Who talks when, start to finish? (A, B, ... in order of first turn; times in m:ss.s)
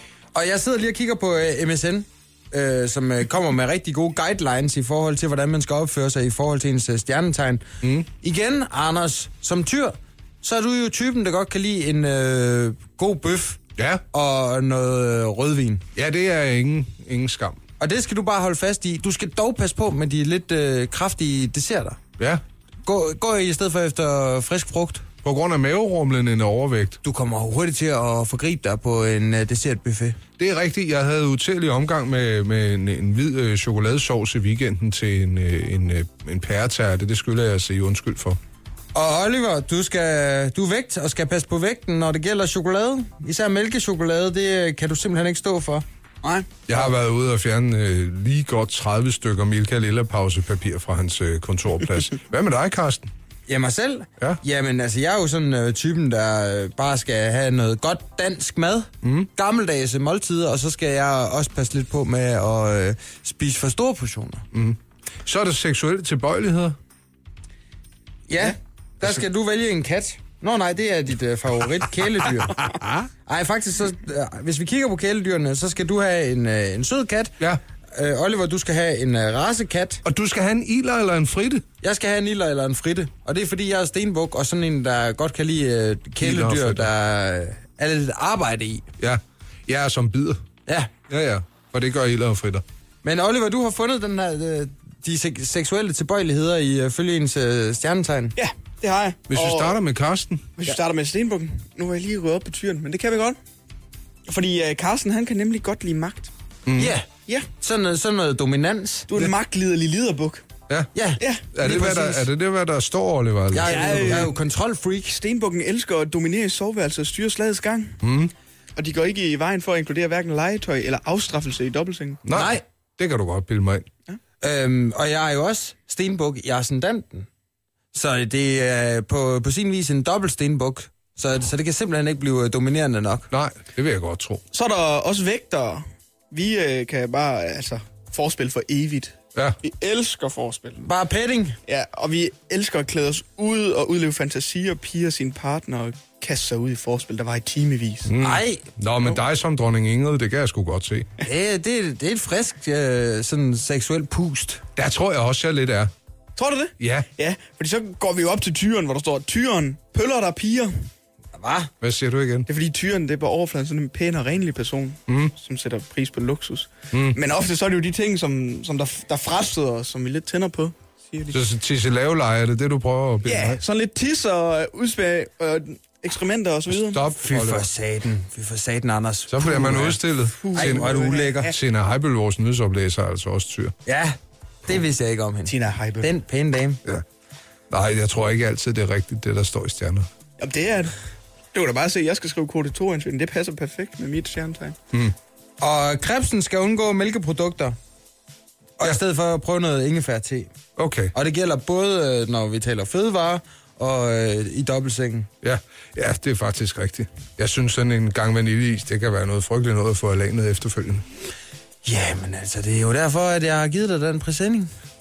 0:00.3-0:13.6 A
0:13.8-0:14.0 B
0:14.1-0:15.8 A
0:15.9-0:17.6 B
0:17.8-0:22.0 A
0:22.8-0:25.0 A
0:25.2-0:27.0 B
0:27.0-0:30.2 A
0:30.4-0:38.4 B
0:38.9-0:45.8 A
0:46.2-0:46.5 C
0:46.6-0:53.1 B
0:53.5-1:04.4 A
0:59.0-0:59.3 B
1:04.5-1:06.8 B
1:08.3-1:12.7 A
1:12.5-1:12.9 B
1:13.2-1:17.4 A
1:17.9-1:20.0 A
1:20.0-1:21.6 B
1:21.8-1:28.9 A
1:26.2-1:26.9 B
1:29.0-1:30.4 B
1:30.7-1:30.9 A
1:31.1-1:32.6 B
1:33.0-1:38.4 A
1:38.4-1:39.8 C
1:39.3-1:40.6 B
1:40.6-1:43.4 C
1:44.3-1:46.3 C
1:46.6-1:47.0 B
1:46.8-1:49.2 A
1:49.1-1:50.4 C
1:50.9-1:52.3 A
1:51.2-1:51.4 C
1:51.5-1:54.3 B
1:53.5-1:55.2 A
1:53.6-1:54.3 C
1:55.1-1:58.0 C
1:58.0-1:58.3 B
1:58.8-2:02.2 C
2:02.2-2:03.9 B
2:02.3-2:02.6 A
2:04.4-2:07.3 A
2:07.9-2:13.3 A
2:13.3-2:14.4 B
2:14.5-2:20.8 C
2:20.8-2:21.6 A
2:21.6-2:28.1 C
2:28.1-2:31.1 B
2:28.2-2:28.6 A
2:31.2-2:34.6 A
2:34.8-2:35.9 B
2:36.4-2:40.9 C
2:36.8-2:37.1 B
2:41.4-2:41.7 A
2:41.8-2:42.5 B
2:42.5-2:51.4 C
2:45.1-2:45.3 B
2:46.9-2:47.2 B
2:51.3-2:53.6 B
2:53.2-2:57.0 C
2:56.7-2:57.7 B
2:57.2-3:00.0 A
2:59.3-3:03.7 B
3:00.3-3:01.5 C
3:00.5-3:01.5 A
3:03.8-3:06.8 A
3:05.4-3:06.1 C
3:07.7-3:10.1 B
3:10.4-3:10.9 C
3:11.5-3:14.8 C
3:15.6-3:17.7 A
3:18.8-3:20.5 A
3:20.8-3:21.1 B
3:21.1-3:25.3 A
3:25.4-3:31.0 B
3:31.8-3:34.7 A